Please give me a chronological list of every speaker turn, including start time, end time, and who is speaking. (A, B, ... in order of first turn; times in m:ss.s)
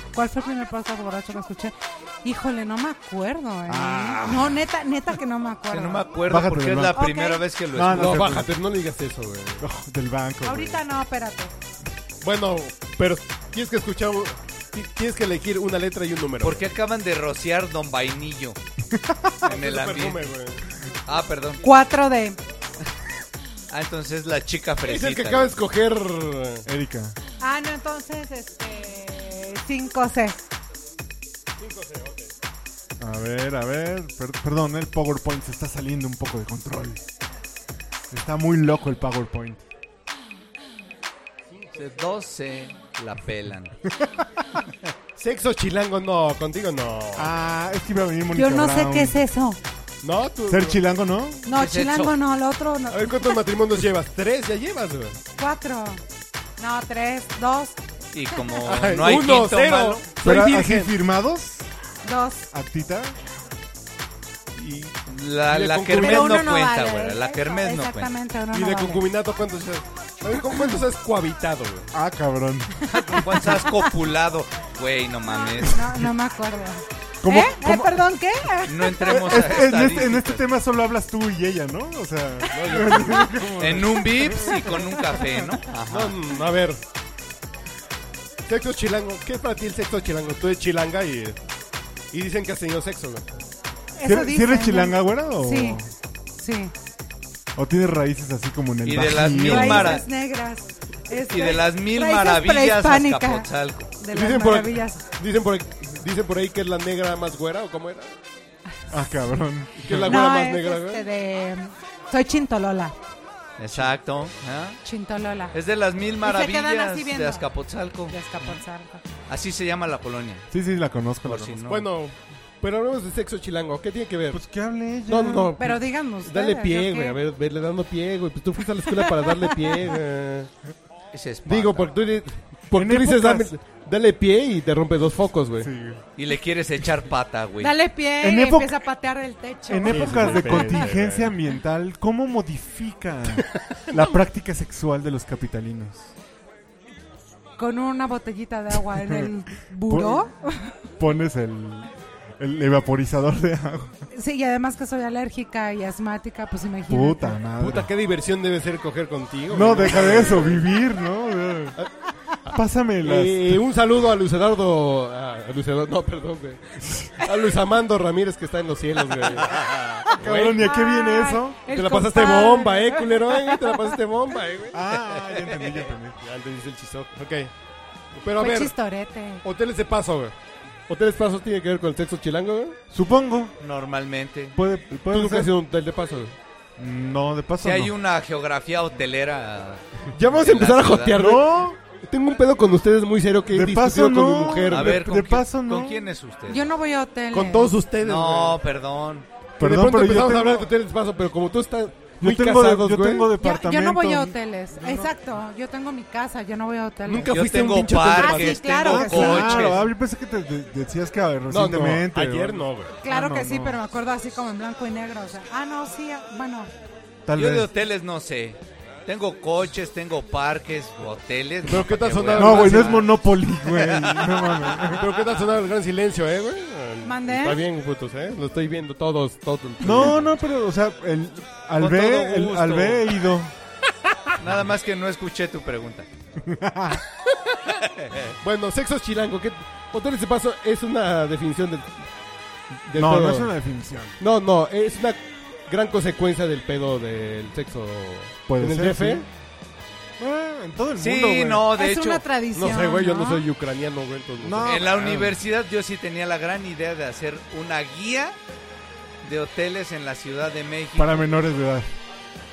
0:00.1-0:06.1 A
0:03.6-0:04.6 B
0:05.7-0:08.3 C
0:06.2-0:07.1 B
0:06.9-0:07.4 A
0:07.7-0:08.5 B
0:07.9-0:09.6 D
0:09.6-0:10.8 B
0:10.4-0:11.5 A
0:12.2-0:16.6 D
0:16.4-0:18.6 C
0:18.9-0:19.3 B
0:19.4-0:20.6 D
0:19.4-0:20.3 C
0:21.0-0:21.6 C
0:21.6-0:22.4 A
0:23.7-0:25.7 C
0:24.8-0:26.6 D
0:26.6-0:27.2 B
0:27.4-0:30.4 A
0:31.6-0:32.3 D
0:33.0-0:37.0 B
0:38.1-0:39.6 B
0:41.7-0:43.7 C
0:45.2-0:47.3 D
0:47.2-0:49.2 B
0:48.3-0:49.6 A
0:50.0-0:50.8 D
0:50.5-0:51.5 B
0:51.4-0:53.4 A
0:51.5-0:52.2 C
0:52.9-0:55.2 D
0:55.4-0:56.0 A
0:56.6-0:57.8 A
0:58.1-1:00.0 C
0:58.3-0:58.6 A
0:58.6-1:00.9 D
1:00.2-1:01.7 B
1:02.0-1:02.4 A
1:02.5-1:03.2 B
1:04.6-1:06.5 D
1:05.1-1:08.1 C
1:05.9-1:09.0 A
1:08.5-1:11.9 D
1:11.9-1:13.4 B
1:12.9-1:15.8 C
1:13.0-1:13.3 A
1:15.3-1:19.2 A
1:17.2-1:18.2 B
1:18.7-1:20.4 C
1:19.1-1:25.3 B
1:22.5-1:23.7 D
1:23.6-1:26.2 C
1:25.9-1:26.8 D
1:28.5-1:31.4 D
1:32.1-1:33.2 D
1:34.0-1:35.8 A
1:34.0-1:35.9 B
1:36.4-1:36.7 A
1:37.5-1:40.0 B
1:38.8-1:40.0 C
1:39.4-1:43.5 A
1:41.3-1:43.9 C
1:44.0-1:45.0 A
1:44.1-1:48.1 D
1:48.9-1:50.1 B
1:49.8-1:51.0 D
1:50.0-1:52.9 A
1:53.6-1:54.8 C
1:54.8-1:55.5 A
1:55.5-1:58.5 C
1:56.2-1:57.5 A
1:58.1-1:59.0 A
1:59.3-2:00.5 C
2:00.5-2:01.6 B
2:01.2-2:01.8 C
2:01.6-2:04.4 D
2:04.3-2:05.6 B
2:05.1-2:10.5 D
2:05.6-2:07.2 A
2:11.1-2:11.9 C
2:11.4-2:15.7 D
2:12.7-2:13.5 B
2:15.6-2:16.0 B
2:16.2-2:17.7 C
2:17.6-2:20.8 A
2:18.2-2:18.8 B
2:19.7-2:26.1 B
2:19.8-2:21.3 D
2:27.6-2:30.7 A
2:29.0-2:29.3 B
2:29.8-2:30.3 B
2:31.0-2:33.9 B
2:34.1-2:37.4 A
2:36.9-2:37.9 B
2:37.6-2:40.7 D
2:39.5-2:41.8 B
2:42.5-2:43.6 B
2:43.0-2:50.7 D
2:50.2-2:51.6 B
2:50.6-2:53.8 A
2:51.7-2:54.8 D
2:54.7-2:56.2 B
2:56.2-2:57.5 D
2:58.2-2:58.7 D
2:58.4-2:59.4 A
2:59.4-3:00.3 D
3:00.9-3:02.8 D
3:02.9-3:03.5 B
3:03.6-3:04.6 C
3:04.6-3:05.5 B
3:04.9-3:06.3 D
3:06.8-3:07.9 B
3:07.6-3:11.2 C
3:10.1-3:11.5 D
3:11.1-3:11.8 B
3:12.0-3:15.0 D
3:13.5-3:16.0 B
3:14.7-3:16.7 C
3:16.5-3:17.8 A
3:17.3-3:18.6 D
3:18.0-3:19.3 C
3:19.6-3:20.7 B
3:19.6-3:23.3 D
3:22.2-3:25.1 B
3:23.4-3:27.3 A
3:27.0-3:28.7 D
3:27.3-3:29.8 C
3:28.1-3:29.7 A
3:28.8-3:33.8 B
3:31.5-3:32.9 D
3:33.0-3:36.7 A
3:37.2-3:37.7 B
3:37.3-3:43.1 C
3:41.6-3:43.1 D
3:42.3-3:45.1 B
3:43.8-3:44.5 C
3:44.8-3:50.3 D
3:47.0-3:47.6 A
3:49.8-3:53.5 B
3:51.8-3:53.1 C
3:54.4-3:56.1 C
3:56.4-3:57.0 B
3:58.0-3:58.3 C
3:58.4-4:01.9 D
4:02.8-4:03.5 D
4:02.9-4:04.2 B
4:04.2-4:09.2 D
4:08.5-4:09.3 B
4:10.2-4:11.6 B
4:11.0-4:12.2 C
4:11.8-4:13.4 A
4:12.5-4:14.8 D
4:14.4-4:15.4 B
4:14.6-4:18.4 C
4:19.2-4:21.2 C
4:21.0-4:21.9 B